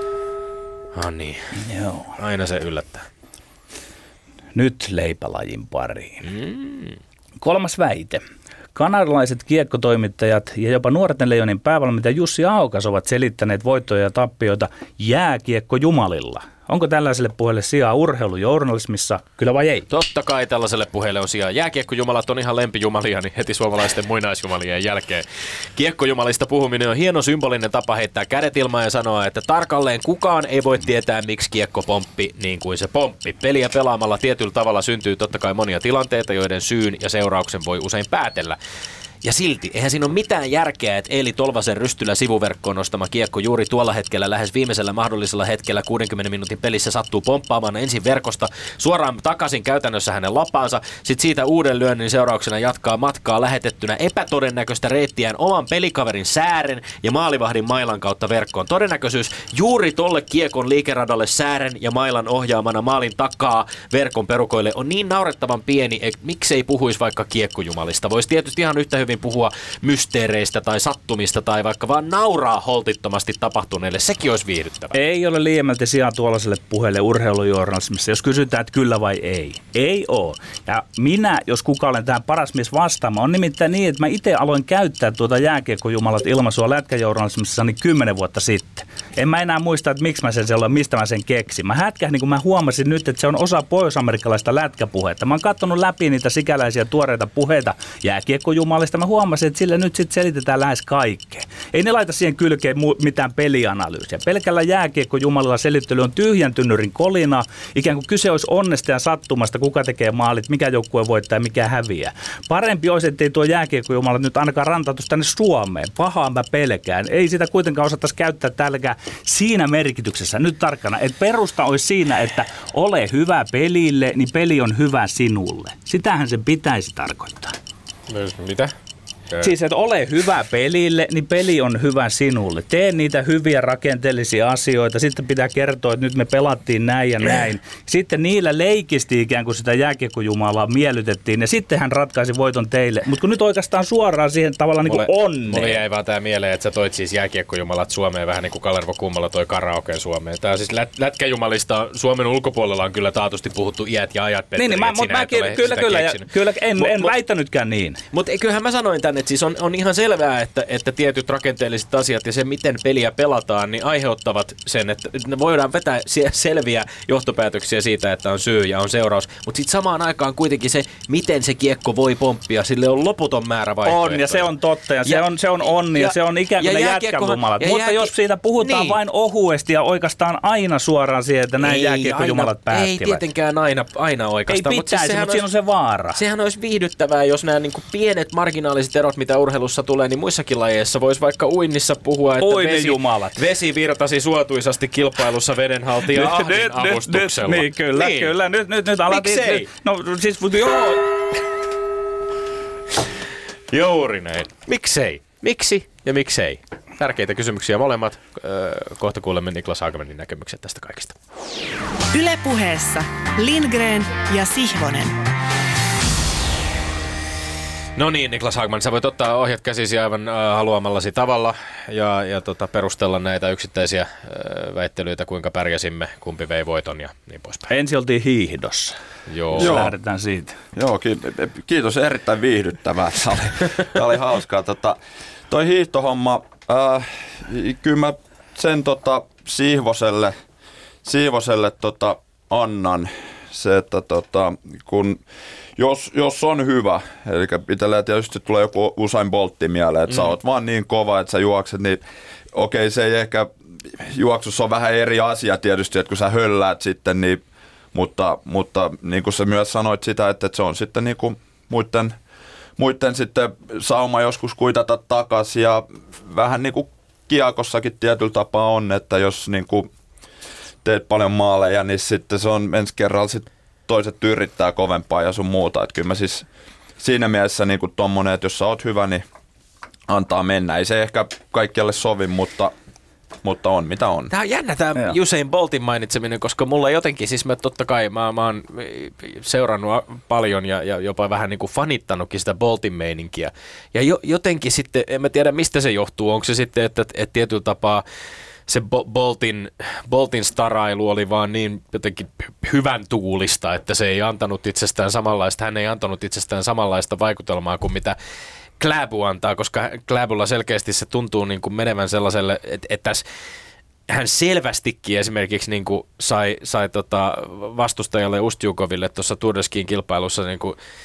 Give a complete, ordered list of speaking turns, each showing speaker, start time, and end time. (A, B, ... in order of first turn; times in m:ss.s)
0:00.9-0:01.6 A
0:01.6-0:02.1 B
0:02.2-0:03.1 A
0:04.6-0:06.3 B
0:06.2-0:07.0 A
0:07.4-0:08.2 B
0:08.8-0:19.9 B
0:19.9-0:25.2 A
0:25.8-0:38.6 A
0:39.2-1:15.0 A
1:14.9-2:07.6 B
2:08.1-2:08.7 A
2:09.4-2:25.8 B
2:24.8-2:37.1 A
2:34.6-2:38.0 B
2:38.1-2:54.5 A
2:53.8-3:03.2 B
2:55.8-2:59.0 A
3:01.6-3:05.5 A
3:04.5-3:06.2 B
3:06.2-3:18.3 A
3:12.4-3:13.4 B
3:16.1-3:21.1 B
3:19.1-3:19.7 A
3:23.7-3:31.1 A
3:32.1-3:35.2 C
3:38.0-3:47.7 A
3:47.7-3:49.0 B
3:49.3-3:49.9 A
3:49.5-3:50.6 B
3:49.6-3:49.9 D
3:50.7-3:55.0 D
3:55.5-4:00.3 D
4:01.0-4:05.2 D
4:05.8-4:12.0 D
4:12.5-4:17.4 D
4:17.9-4:22.1 D
4:22.8-4:29.9 D
4:30.8-4:36.5 D
4:37.0-4:39.2 D
4:40.1-4:42.7 D
4:43.4-4:44.3 D
4:44.3-4:58.0 A
4:58.7-5:08.2 A
5:08.8-5:13.2 A
5:14.1-5:20.8 A